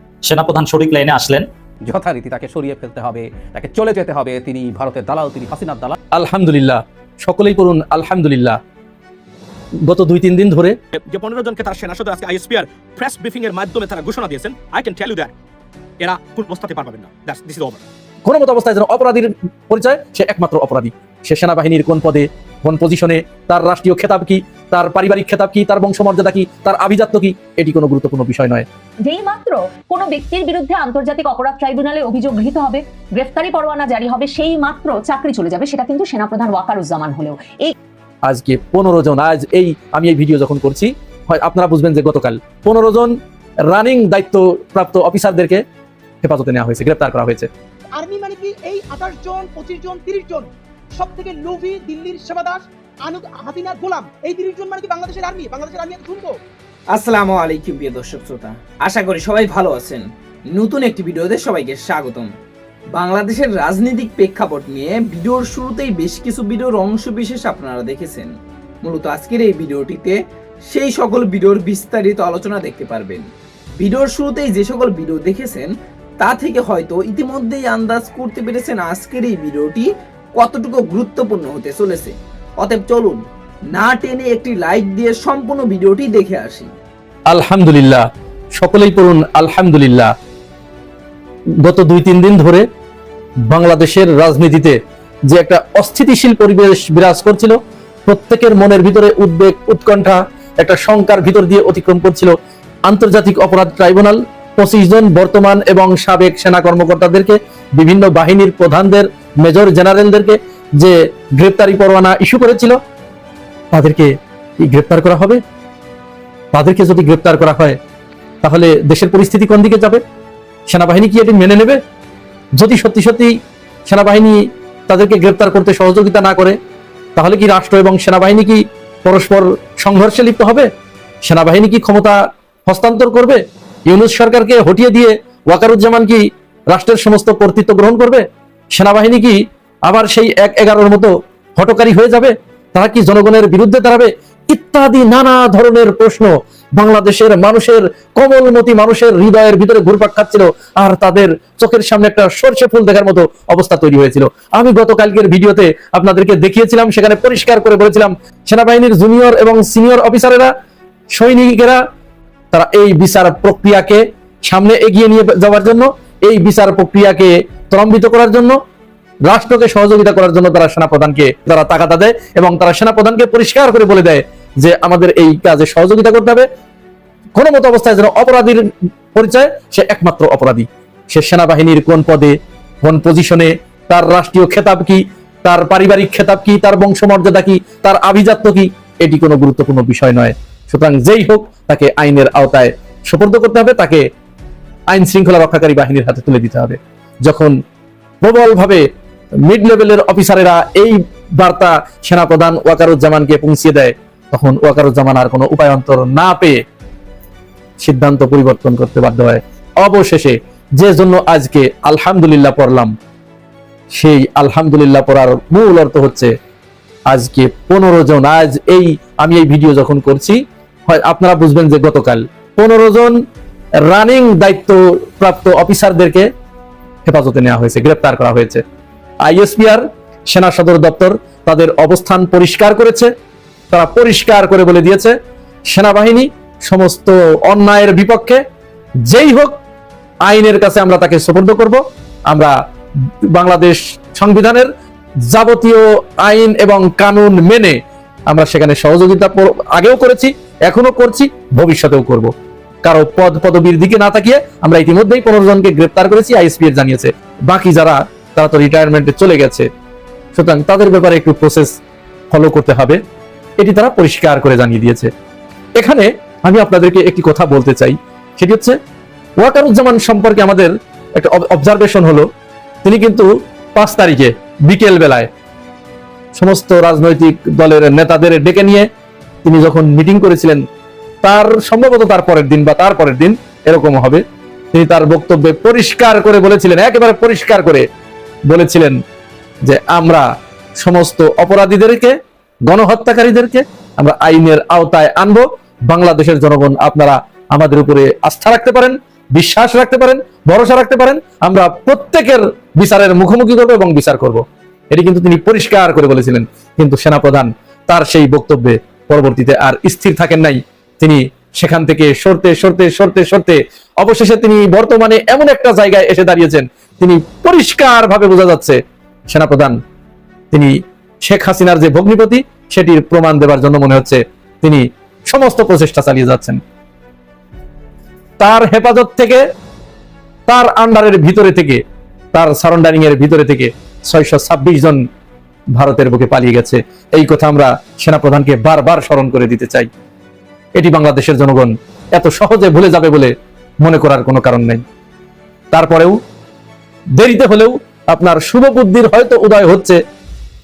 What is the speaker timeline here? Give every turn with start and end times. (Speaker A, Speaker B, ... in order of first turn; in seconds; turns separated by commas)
Speaker A: 0.2-1.5, Speaker B: 1.8-6.0, Speaker C: 6.1-8.6, Speaker C: 9.8-10.8, Speaker A: 11.1-15.3, Speaker D: 11.1-15.3, Speaker A: 16.0-17.5, Speaker D: 16.0-17.8, Speaker C: 18.2-28.7, Speaker E: 29.1-37.7, Speaker C: 38.2-45.6, Speaker C: 46.2-47.5, Speaker F: 47.9-56.3, Speaker G: 56.9-60.0, Speaker G: 60.5-62.3, Speaker G: 63.0-68.3, Speaker G: 68.8-70.2, Speaker G: 70.7-73.2, Speaker G: 73.8-75.7, Speaker G: 76.2-83.2, Speaker G: 83.8-86.7, Speaker C: 87.3-88.0, Speaker C: 88.6-90.1, Speaker C: 91.6-92.7, Speaker C: 93.5-94.8, Speaker C: 95.3-102.3, Speaker C: 102.9-112.8, Speaker C: 113.7-115.4, Speaker C: 116.5-117.8, Speaker C: 118.4-120.0, Speaker C: 120.7-121.8, Speaker C: 122.6-123.3, Speaker C: 123.9-126.6, Speaker C: 127.2-130.7, Speaker C: 131.2-160.5, Speaker C: 161.1-161.8, Speaker C: 162.5-168.6, Speaker C: 169.2-176.5, Speaker C: 177.3-194.0, Speaker C: 194.9-197.5, Speaker C: 198.2-198.8, Speaker C: 199.5-206.6, Speaker C: 207.8-212.9, Speaker C: 213.9-216.3, Speaker C: 217.1-223.2, Speaker C: 223.8-226.3, Speaker C: 227.1-228.6, Speaker C: 229.2-233.1, Speaker C: 233.7-235.2, Speaker C: 235.7-238.4, Speaker C: 239.1-239.6, Speaker C: 240.2-242.6, Speaker C: 243.2-244.7, Speaker C: 245.3-252.3, Speaker C: 252.8-259.7, Speaker C: 260.4-261.8, Speaker C: 262.3-263.0, Speaker C: 263.6-265.1, Speaker C: 265.8-268.8, Speaker C: 269.4-272.3, Speaker C: 272.8-275.3, Speaker C: 276.4-278.9, Speaker C: 279.4-280.6, Speaker C: 281.2-287.9, Speaker C: 288.5-289.0, Speaker C: 289.6-290.3, Speaker C: 290.8-319.8, Speaker C: 320.5-326.6, Speaker C: 328.4-329.4, Speaker C: 330.5-331.8, Speaker C: 332.3-335.0, Speaker C: 335.7-339.9, Speaker C: 340.8-344.8, Speaker C: 345.7-346.2, Speaker C: 347.2-350.0